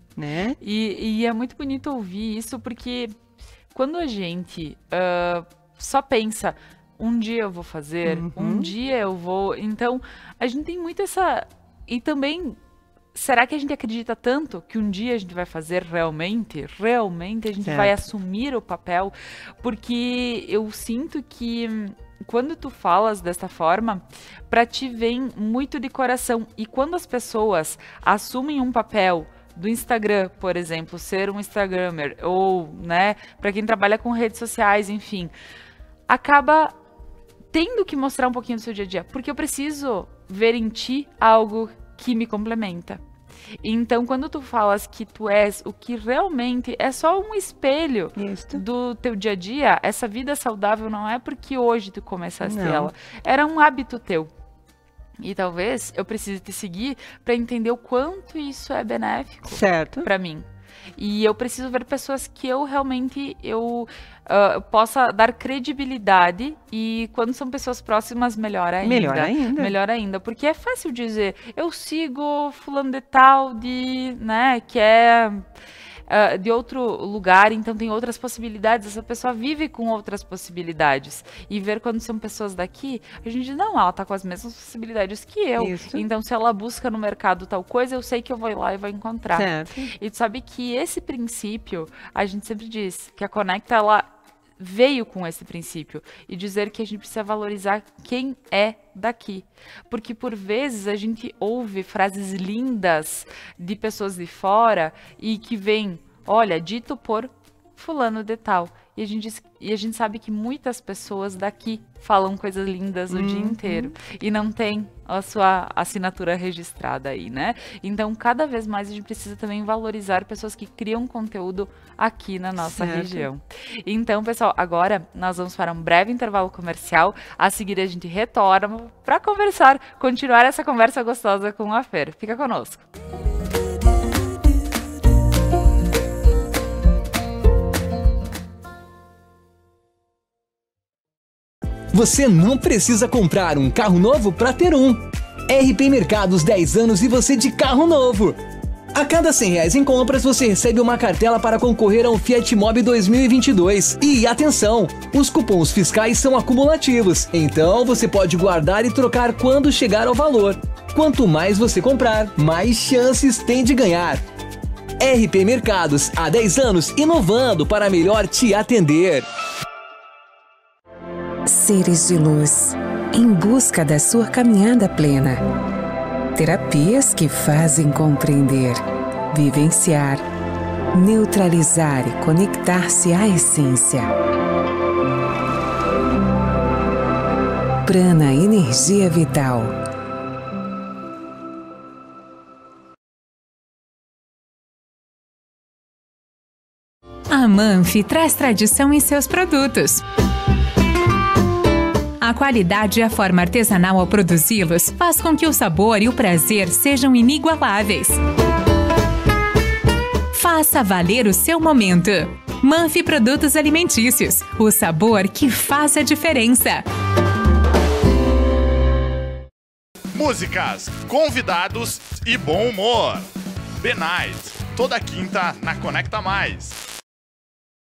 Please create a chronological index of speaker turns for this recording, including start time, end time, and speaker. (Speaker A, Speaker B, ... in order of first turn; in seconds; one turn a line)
Speaker A: 0.2-0.6
Speaker B: 0.6-3.1
Speaker B: 3.7-12.6
Speaker A: 8.0-8.7
Speaker B: 13.1-35.3
Speaker A: 17.6-18.0
Speaker B: 36.1-36.7
Speaker B: 37.5-43.0
Speaker B: 43.6-54.3
Speaker A: 48.2-48.6
Speaker A: 52.4-52.9
Speaker B: 55.2-60.5
Speaker A: 59.5-60.1
Speaker B: 61.0-75.4
Speaker A: 68.8-69.8
Speaker B: 76.1-132.8
Speaker A: 85.6-86.0
Speaker A: 89.3-89.9
Speaker A: 113.1-113.9
Speaker A: 122.6-123.3
Speaker C: 141.9-148.4
Speaker C: 148.9-164.2
Speaker C: 165.0-169.2
Speaker D: 171.5-175.4
Speaker D: 176.3-180.2
Speaker D: 180.9-184.1
Speaker D: 187.8-189.7
Speaker E: 197.3-200.0
Speaker E: 202.2-208.2
Speaker E: 210.3-216.8
Speaker F: 220.1-223.3
Speaker F: 223.8-226.8